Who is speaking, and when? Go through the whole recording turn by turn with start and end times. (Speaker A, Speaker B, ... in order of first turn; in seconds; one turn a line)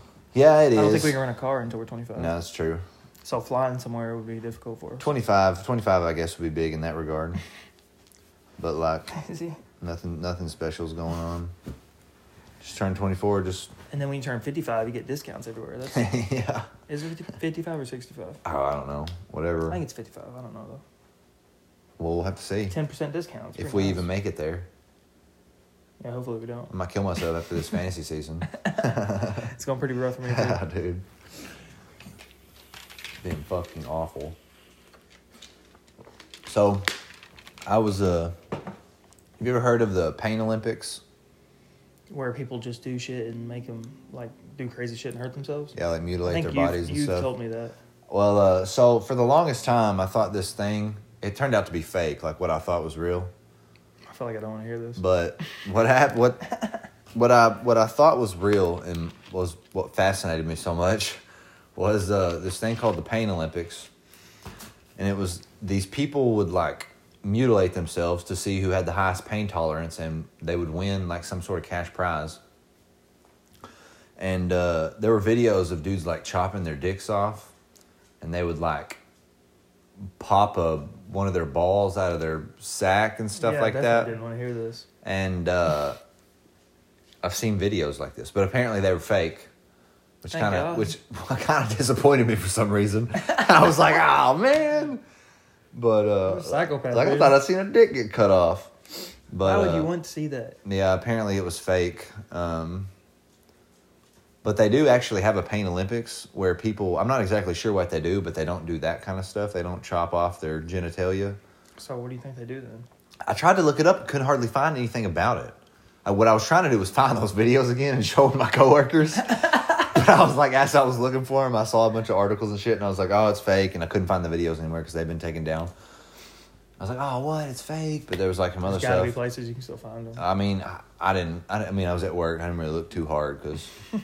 Speaker A: 0.3-1.2
Speaker B: 0.7-2.3
Speaker A: 2.1-2.8
Speaker B: 3.2-5.1
Speaker A: 5.0-7.4
Speaker A: 8.6-9.1
Speaker B: 9.1-9.6
Speaker A: 9.8-11.5
Speaker A: 12.6-13.7
Speaker B: 13.9-16.1
Speaker A: 15.9-16.7
Speaker B: 16.9-18.4
Speaker A: 18.4-19.8
Speaker B: 19.7-20.8
Speaker A: 22.0-22.8
Speaker B: 22.7-24.1
Speaker A: 23.6-24.7
Speaker B: 26.0-26.7
Speaker A: 26.7-29.5
Speaker B: 28.6-30.6
Speaker A: 30.2-31.0
Speaker A: 33.2-34.4
Speaker A: 36.5-36.9
Speaker A: 37.6-38.3
Speaker A: 39.4-41.0
Speaker B: 42.1-47.7
Speaker A: 45.7-47.3
Speaker A: 48.1-53.3
Speaker B: 54.1-55.0
Speaker A: 55.0-56.5
Speaker A: 57.1-61.2
Speaker A: 61.8-63.9
Speaker A: 65.0-72.4
Speaker A: 74.2-77.5
Speaker A: 78.2-79.0
Speaker A: 80.2-84.1
Speaker B: 83.3-84.9
Speaker A: 85.0-86.0
Speaker A: 87.2-89.5
Speaker A: 90.2-95.0
Speaker B: 90.3-90.9
Speaker A: 95.7-98.7
Speaker B: 96.2-97.4
Speaker A: 99.3-99.9
Speaker B: 99.4-100.6
Speaker A: 100.6-102.9
Speaker A: 104.4-111.4
Speaker B: 111.8-112.9
Speaker A: 113.2-125.7
Speaker A: 126.8-129.2
Speaker B: 128.6-130.2
Speaker A: 130.2-133.7